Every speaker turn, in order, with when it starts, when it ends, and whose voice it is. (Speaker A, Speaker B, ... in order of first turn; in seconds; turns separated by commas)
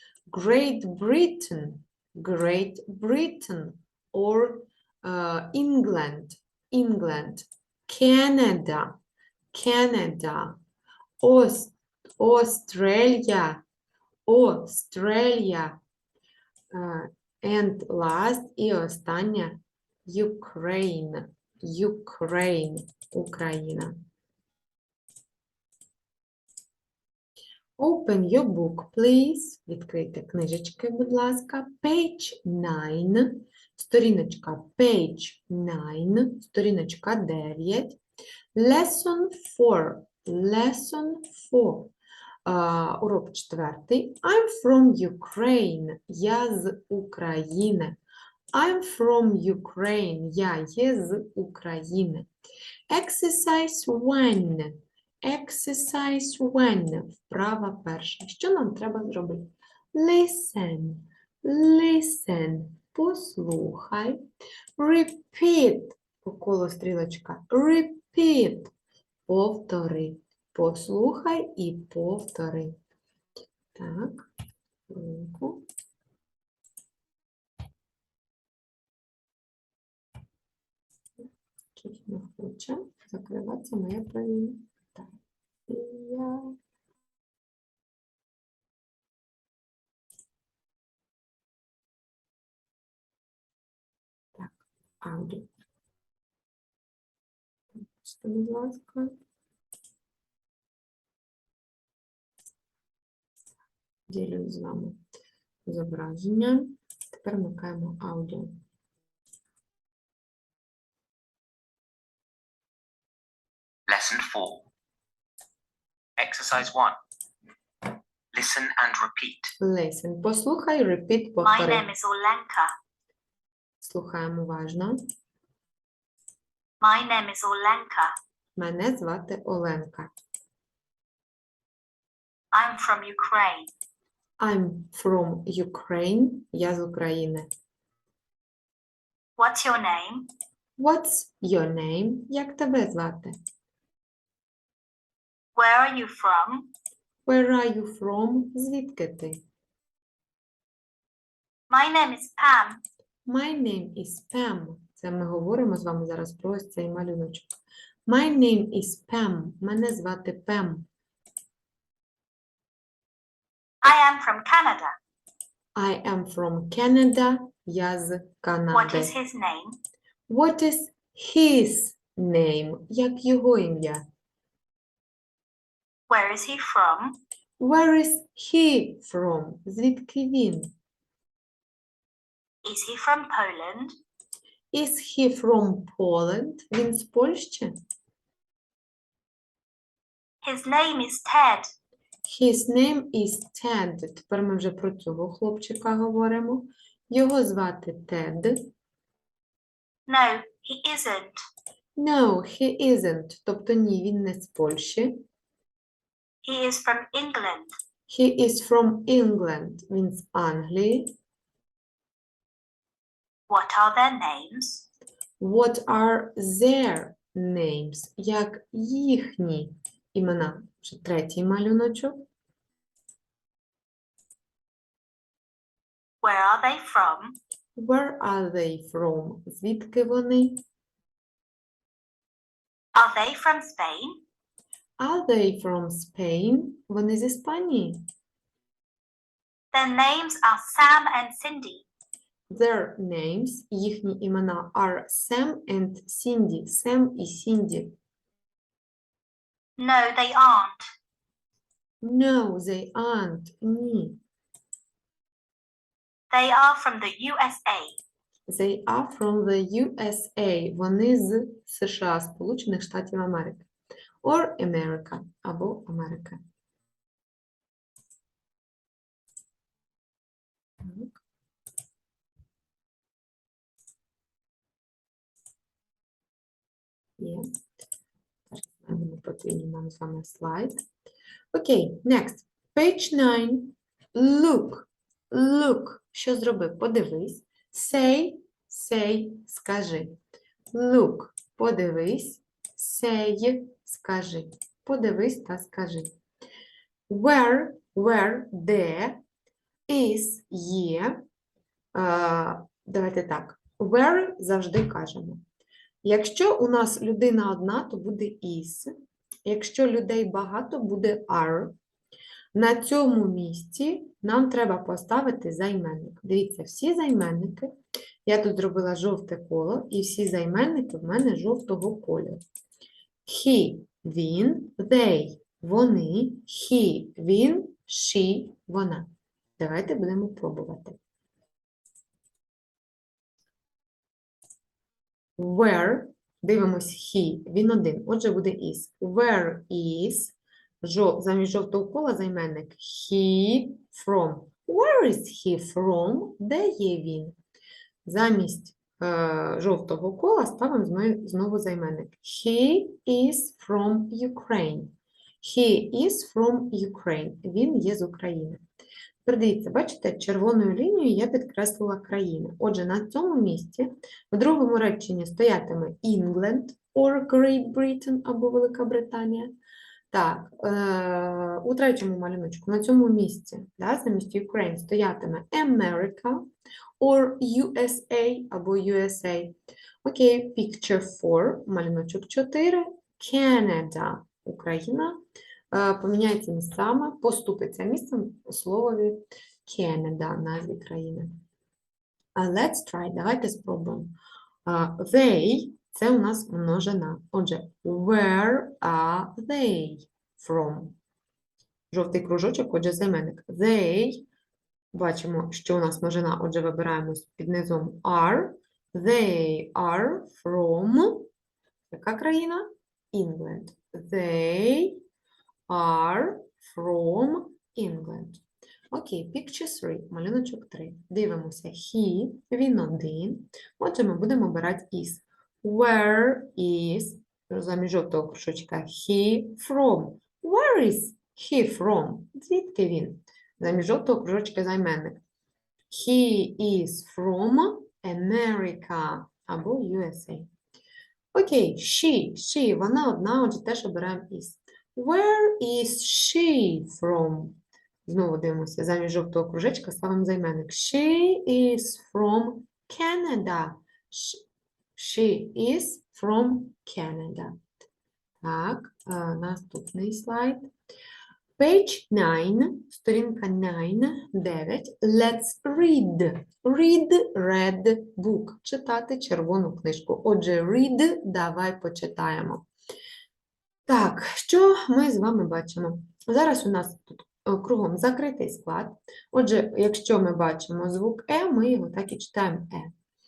Speaker A: 0.3-9.0, Speaker A: 9.5-10.6, Speaker A: 11.2-13.6, Speaker A: 14.3-15.8, Speaker A: 16.7-23.9, Speaker A: 27.8-38.0, Speaker A: 38.5-41.9, Speaker A: 42.5-48.0, Speaker A: 48.5-52.3, Speaker A: 52.9-64.2, Speaker A: 64.8-68.7, Speaker A: 69.3-72.8, Speaker A: 73.8-74.3, Speaker A: 74.9-75.7, Speaker A: 81.7-85.1, Speaker A: 85.7-86.5, Speaker A: 94.3-95.5, Speaker A: 97.8-99.2, Speaker A: 104.1-105.0, Speaker A: 105.7-108.6, Speaker B: 113.9-114.7, Speaker B: 116.2-117.0, Speaker B: 118.3-119.5, Speaker A: 119.6-121.9, Speaker C: 121.4-122.7, Speaker A: 123.8-125.0, Speaker C: 126.8-128.1, Speaker A: 128.6-130.1, Speaker C: 132.5-133.7, Speaker A: 134.4-137.5, Speaker C: 139.4-140.3, Speaker A: 140.8-143.3, Speaker C: 145.6-146.7, Speaker A: 147.3-149.4, Speaker C: 151.7-152.8, Speaker A: 153.3-157.5, Speaker A: 158.1-160.9, Speaker C: 163.8-164.9, Speaker A: 165.8-169.1, Speaker C: 168.7-169.8, Speaker A: 170.3-174.0, Speaker C: 176.1-177.2, Speaker A: 177.6-180.7, Speaker C: 182.6-183.9, Speaker A: 184.7-187.8, Speaker C: 190.4-191.7, Speaker A: 192.2-198.7, Speaker C: 200.1-201.4, Speaker A: 202.0-205.2, Speaker C: 206.4-207.7, Speaker A: 208.1-211.1, Speaker C: 213.5-214.9, Speaker A: 215.4-222.3, Speaker C: 226.2-227.4, Speaker A: 227.8-230.6, Speaker C: 232.9-234.2, Speaker A: 235.0-238.0, Speaker C: 239.7-241.8, Speaker A: 242.5-247.9, Speaker C: 249.8-250.8, Speaker A: 252.0-254.2, Speaker C: 256.3-258.0, Speaker A: 258.5-263.7, Speaker A: 264.2-266.4, Speaker A: 270.8-271.2, Speaker A: 277.2-277.4, Speaker A: 278.5-280.8, Speaker A: 281.5-290.2, Speaker A: 290.7-296.1, Speaker A: 297.1-299.2, Speaker A: 299.9-301.2, Speaker A: 301.9-305.4, Speaker A: 306.0-308.9, Speaker A: 309.4-311.7, Speaker A: 312.5-317.7, Speaker A: 318.2-322.4, Speaker A: 323.2-331.0, Speaker A: 335.4-347.4, Speaker A: 348.0-358.6, Speaker A: 359.2-369.5, Speaker A: 370.1-376.5, Speaker A: 377.0-385.2, Speaker A: 385.7-391.4, Speaker A: 392.4-394.1, Speaker A: 394.6-401.0, Speaker A: 401.9-404.2, Speaker A: 404.9-411.3, Speaker A: 411.9-415.0, Speaker A: 415.7-435.2, Speaker A: 435.9-440.5, Speaker A: 441.3-454.4, Speaker A: 454.9-457.6, Speaker A: 458.4-460.7, Speaker A: 461.6-472.7, Speaker A: 473.9-482.9